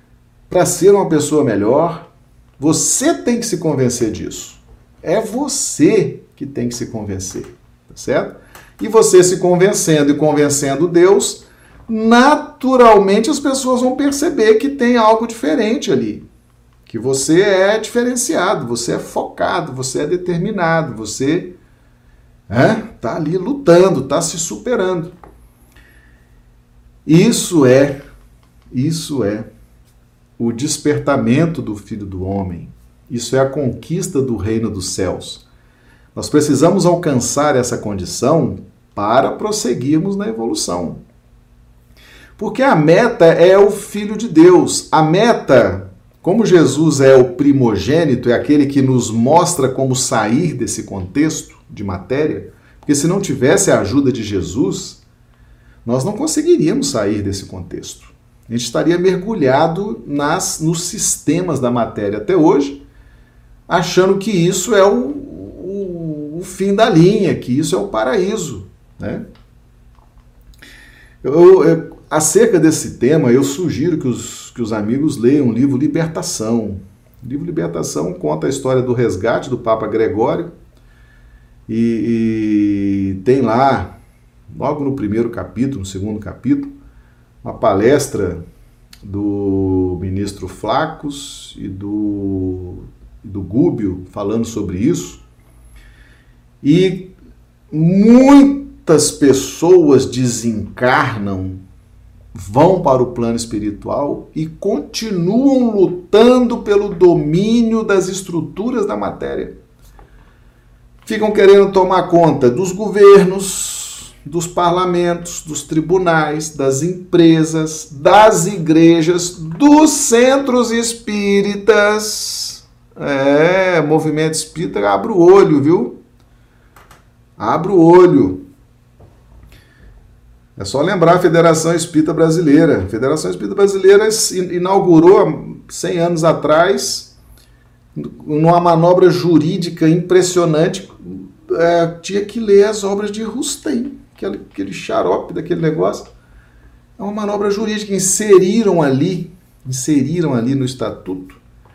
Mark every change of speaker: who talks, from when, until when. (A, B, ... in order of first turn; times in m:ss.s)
0:00.5-0:02.1 A
0:02.6-0:16.2 A
0:16.9-0:21.5 A
0:22.5-0:25.1 A
0:27.0-0:28.0 A
0:28.7-0:29.5 A
0:30.4-0:35.4 A
0:36.1-0:41.0 A
0:42.4-0:55.0 A
0:55.8-1:02.8 A
1:03.7-1:09.2 A
1:11.2-1:20.5 A
1:21.7-1:24.0 A
1:24.5-1:26.7 A
1:27.4-1:28.4 A
1:29.0-1:35.2 A
1:36.6-1:37.1 A
1:37.7-1:41.6 A
1:42.3-1:49.5 A
1:51.0-2:06.0 A
2:07.4-2:08.4 A
2:10.6-2:17.1 A
2:17.9-2:26.1 A
2:27.0-2:31.4 A